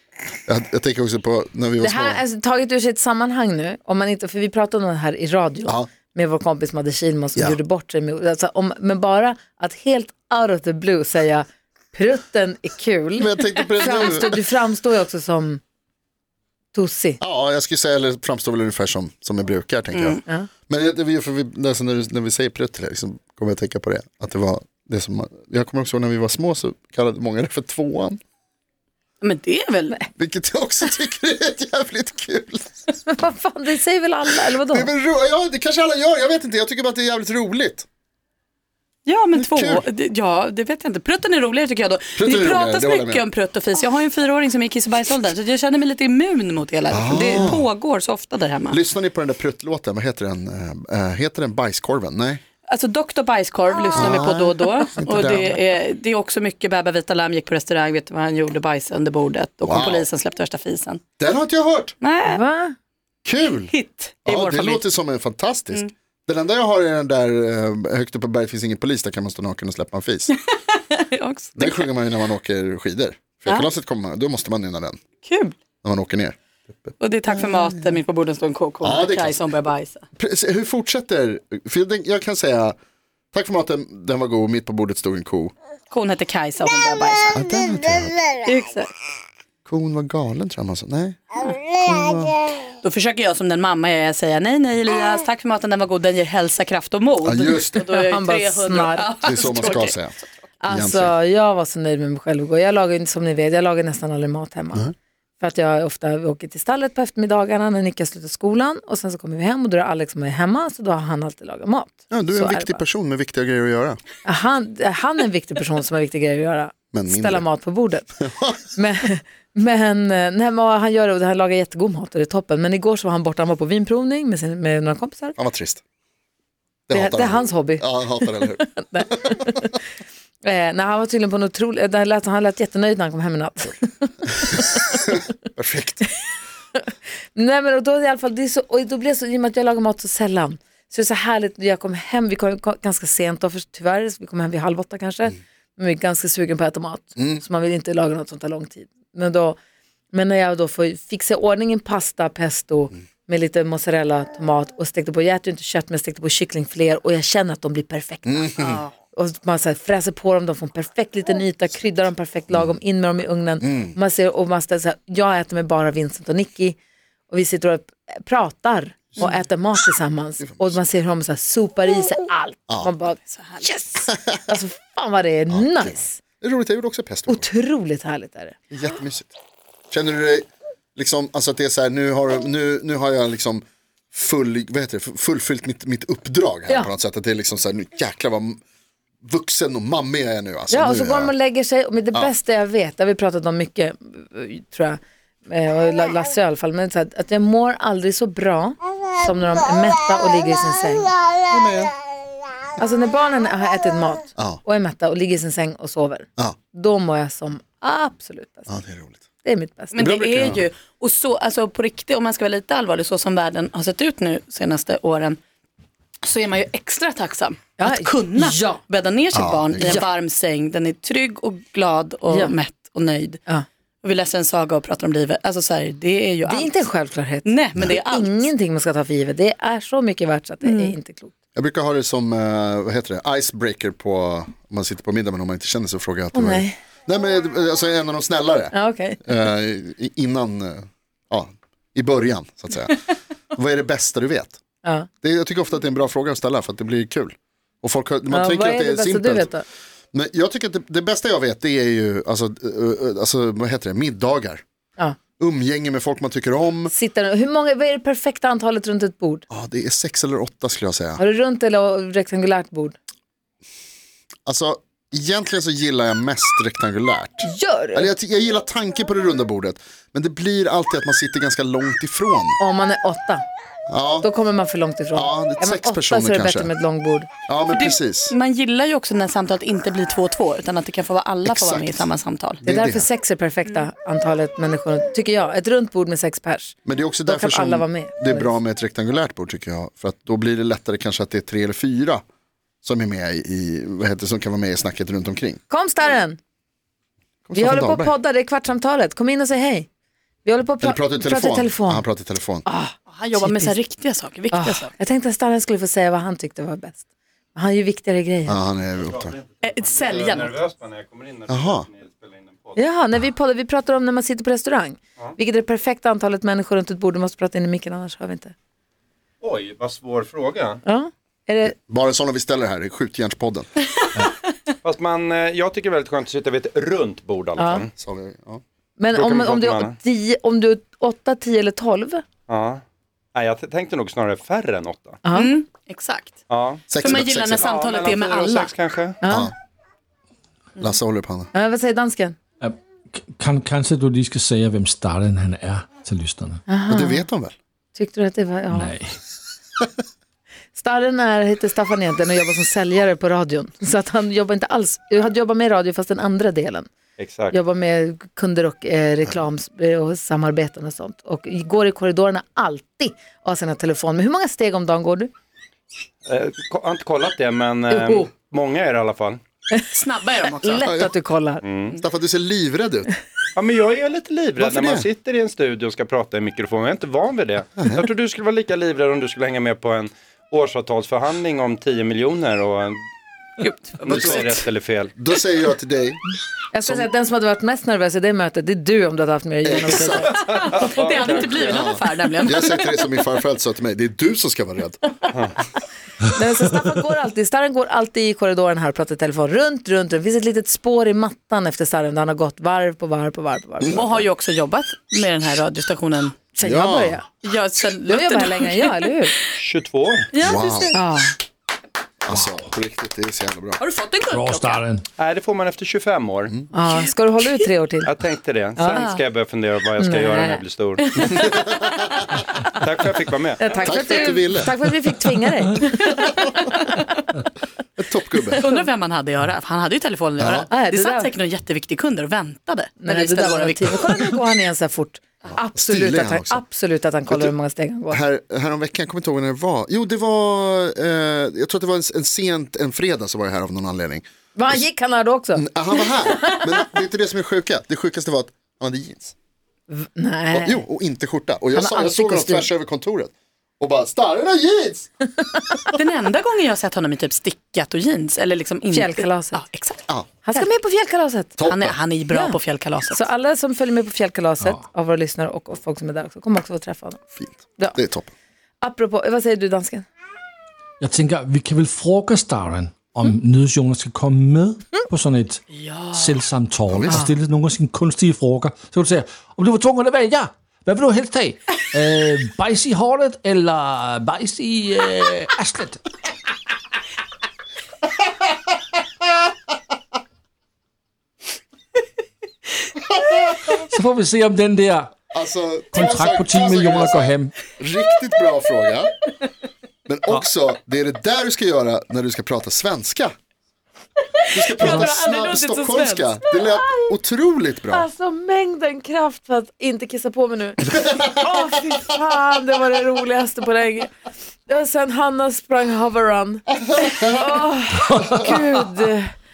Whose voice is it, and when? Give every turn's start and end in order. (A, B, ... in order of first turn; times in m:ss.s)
0:00.5-0:02.2 A
0:01.8-0:15.6 B
0:13.2-0:14.4 A
0:16.7-0:17.2 B
0:17.2-0:28.2 A
0:19.9-0:20.2 C
0:29.2-0:30.0 C
0:30.1-0:32.8 A
0:33.0-0:34.9 B
0:34.4-0:37.8 A
0:39.0-0:48.8 C
0:39.3-0:39.8 A
0:42.2-0:43.2 A
0:46.9-0:47.7 A
0:48.7-0:52.4 A
0:52.7-1:01.0 C
0:53.9-0:55.6 A
0:59.6-1:00.1 A
1:01.2-1:01.9 A
1:02.0-1:02.4 C
1:02.2-1:02.7 B
1:03.2-1:03.7 A
1:03.7-1:04.9 C
1:04.2-1:10.3 A
1:10.9-1:11.9 C
1:11.6-1:15.0 A
1:15.2-1:15.5 C
1:15.8-1:16.9 A
1:17.0-1:20.0 C
1:18.8-1:19.4 A
1:20.2-1:22.8 A
1:23.3-1:25.5 A
1:25.9-1:27.4 C
1:27.3-1:28.2 A
1:28.4-1:28.9 C
1:29.6-1:32.4 A
1:32.8-1:40.2 C
1:37.2-1:37.8 A
1:38.0-1:39.1 B
1:39.2-1:40.1 A
1:40.6-1:52.8 B
1:40.7-1:41.1 A
1:52.1-1:54.0 A
1:54.2-1:58.1 B
1:56.9-1:57.4 A
1:58.2-1:58.6 A
1:58.7-2:05.3 B
2:05.4-2:05.8 A
2:06.9-2:09.4 A
2:06.9-2:09.7 B
2:10.4-2:15.1 B
2:14.7-2:16.1 A
2:16.9-2:29.6 B
2:27.2-2:27.4 A
2:30.1-2:38.6 B
2:38.2-2:38.8 A
2:38.6-2:38.9 C
2:39.1-2:46.8 B
2:43.6-2:44.0 A
2:47.3-2:56.2 B
2:50.4-2:50.8 A
2:53.3-2:53.8 C
2:54.1-2:54.4 A
2:55.5-2:57.5 A
2:57.3-2:58.6 B
2:58.7-2:59.3 A
2:59.9-3:08.6 A
3:09.2-3:11.3 A
3:10.7-3:21.1 B
3:21.5-3:21.9 A
3:22.8-3:28.7 B
3:28.7-3:29.2 A
3:29.4-3:30.0 B
3:29.9-3:35.4 C
3:30.0-3:30.6 A
3:36.2-3:43.4 C
3:37.8-3:38.8 B
3:39.3-3:40.0 A
3:44.0-3:48.5 C
3:46.4-3:51.3 B
3:50.6-3:50.9 C
3:51.5-4:04.6 A
3:56.3-3:56.8 B
3:58.7-3:59.2 B
4:04.8-4:05.1 B
4:05.2-4:09.5 A
4:08.3-4:09.6 B
4:10.1-4:14.6 A
4:15.4-4:16.9 A
4:16.9-4:19.4 B
4:19.5-4:21.2 A
4:21.2-4:23.0 B
4:24.4-4:32.6 A
4:27.4-4:28.1 B
4:32.6-4:33.4 B
4:33.9-4:34.3 A
4:34.2-4:37.3 B
4:35.1-4:36.7 A
4:37.5-4:38.3 A
4:37.7-4:42.6 C
4:41.4-4:42.1 A
4:42.6-4:43.1 A
4:42.6-4:46.7 B
4:46.8-4:52.2 A
4:47.2-4:48.5 B
4:52.8-4:55.6 A
4:55.7-4:56.4 B
4:57.4-4:58.1 A
4:57.5-4:59.9 B
5:00.4-5:02.0 B
5:00.8-5:02.6 A
5:02.6-5:03.8 B
5:03.1-5:04.9 C
5:04.5-5:08.6 B
5:08.5-5:09.3 A
5:09.0-5:12.8 D
5:09.6-5:10.6 C
5:11.5-5:11.9 A
5:12.8-5:18.5 B
5:19.4-5:20.8 D
5:20.8-5:21.7 B
5:21.8-5:23.7 A
5:24.8-5:27.9 D
5:27.6-5:27.8 B
5:28.0-5:28.6 A
5:29.0-5:32.2 B
5:29.1-5:30.0 D
5:32.5-5:32.8 D
5:33.3-5:35.2 D
5:35.2-5:35.6 B
5:35.3-5:36.4 C
5:36.5-5:39.2 D
5:36.9-5:37.7 A
5:37.0-5:38.8 C
5:39.2-5:39.5 B
5:39.3-5:39.5 A
5:40.8-5:41.5 A
5:41.5-5:42.4 B
5:42.6-5:46.6 E
5:46.7-5:47.3 B
5:46.9-5:47.5 A
5:47.9-5:48.9 B
5:48.7-5:49.0 E
5:50.7-5:56.9 B
5:57.2-5:57.6 D
5:57.5-6:05.3 B
6:06.3-6:09.4 D
6:07.9-6:08.3 B
6:09.9-6:10.8 C
6:10.6-6:11.6 B
6:10.8-6:11.1 A
6:11.6-6:12.0 D
6:12.0-6:13.1 A
6:13.6-6:22.9 D
6:14.6-6:15.1 A
6:17.8-6:18.1 A
6:23.6-6:24.6 C
6:24.0-6:24.6 A
6:24.1-6:25.1 D
6:25.2-6:26.2 A
6:26.7-6:30.3 B
6:26.8-6:27.1 A
6:29.6-6:30.5 A
6:30.3-6:32.9 C
6:30.4-6:31.8 D
6:31.6-6:35.0 A
6:36.3-6:44.2 B
6:43.8-6:46.4 C
6:46.5-6:47.3 B
6:46.6-6:47.2 A
6:47.4-6:49.1 C
6:48.1-6:49.3 B
6:49.6-6:50.2 D
6:50.3-6:51.0 C
6:50.4-6:51.0 A
6:50.9-6:51.3 B
6:52.2-6:53.8 A
6:53.8-6:54.8 C
6:54.3-6:55.0 E
6:55.2-6:56.5 D
6:56.7-6:58.1 B
6:58.0-7:01.4 D
6:58.8-6:59.2 B
7:00.0-7:00.6 B
7:01.2-7:01.8 C
7:02.8-7:03.6 D
7:03.6-7:06.6 B
7:03.8-7:04.7 A
7:08.0-7:08.6 A
7:08.5-7:14.2 C
7:10.4-7:10.7 A
7:10.7-7:11.3 B
7:13.0-7:18.2 B
7:15.5-7:16.6 A
7:17.3-7:17.5 A
7:18.1-7:24.8 A
7:24.5-7:26.8 B
7:25.5-7:29.3 A
7:29.9-7:30.8 B
7:30.5-7:35.1 A
7:31.7-7:32.7 B
7:35.9-7:40.7 C
7:38.9-7:39.6 B
7:40.4-7:41.6 B
7:41.6-7:42.0 A
7:41.7-7:43.2 C
7:42.3-7:42.6 B
7:43.1-7:47.2 B
7:47.4-7:48.3 A
7:48.8-7:50.1 B
7:51.0-7:55.6 E
7:55.7-7:56.3 C
7:56.1-8:06.0 E
7:56.9-7:57.2 A
8:13.9-8:15.1 E
8:15.3-8:19.1 A
8:15.9-8:17.5 E
8:20.0-8:23.3 A
8:24.5-8:28.0 A
8:24.8-8:25.1 E
8:24.8-8:26.2 C
8:27.9-8:34.1 B
8:31.1-8:31.6 A
8:34.7-8:39.3 B
8:36.9-8:37.5 A
8:38.1-8:38.5 E